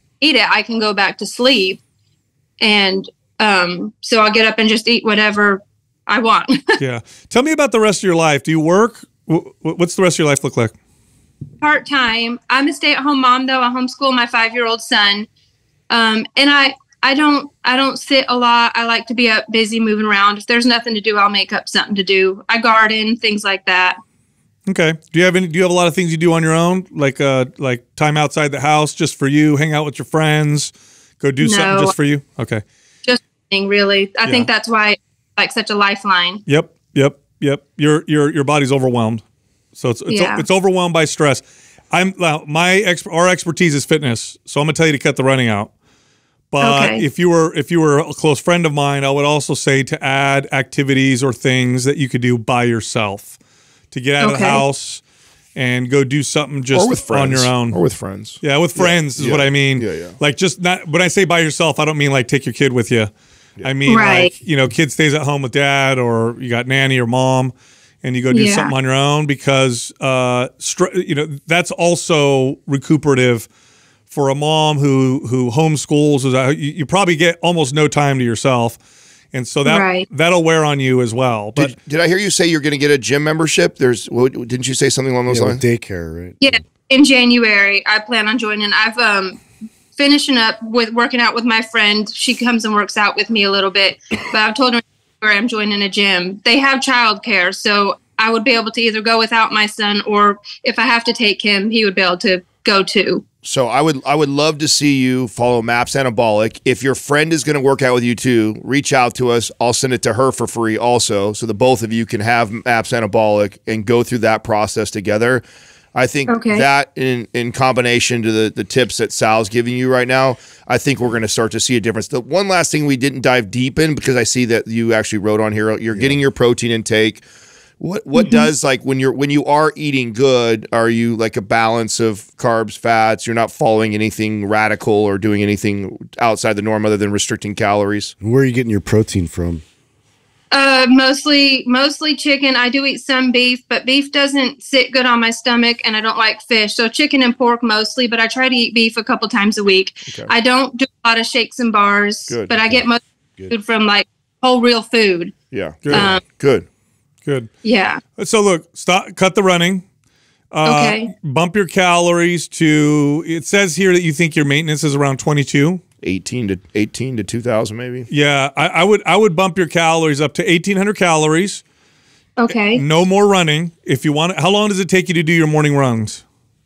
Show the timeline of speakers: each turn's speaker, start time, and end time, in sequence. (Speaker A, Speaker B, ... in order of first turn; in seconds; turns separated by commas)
Speaker A: 0.2-1.8, Speaker A: 2.6-6.8, Speaker B: 6.8-10.7, Speaker A: 11.6-15.3, Speaker A: 15.9-24.0, Speaker B: 24.6-32.6, Speaker A: 31.4-31.9, Speaker A: 33.0-36.4, Speaker B: 34.2-34.5, Speaker B: 36.5-39.2, Speaker B: 39.8-45.7, Speaker A: 40.1-40.4, Speaker B: 46.5-53.4, Speaker A: 46.6-47.0, Speaker B: 53.9-55.0, Speaker A: 54.2-54.6, Speaker B: 55.5-57.8, Speaker C: 56.7-60.1, Speaker B: 58.4-63.1, Speaker B: 63.6-73.5, Speaker A: 63.9-64.3, Speaker A: 68.3-68.7, Speaker B: 74.1-78.8, Speaker B: 79.3-81.7, Speaker A: 79.7-80.0, Speaker C: 81.5-85.6, Speaker D: 85.3-86.4, Speaker A: 86.4-89.4, Speaker A: 89.9-103.2, Speaker C: 103.4-115.4, Speaker C: 115.9-127.2, Speaker A: 116.3-116.7, Speaker D: 125.9-126.2, Speaker C: 127.8-138.1, Speaker A: 128.1-128.5, Speaker D: 138.2-139.6, Speaker A: 140.5-155.3, Speaker C: 152.3-152.7, Speaker C: 155.5-156.7, Speaker A: 155.9-156.2, Speaker B: 157.2-157.5, Speaker A: 157.6-158.0, Speaker B: 158.2-159.8, Speaker B: 160.5-165.8, Speaker A: 160.6-161.1, Speaker C: 166.0-168.1, Speaker B: 168.1-171.6, Speaker A: 172.4-172.8, Speaker B: 172.5-176.2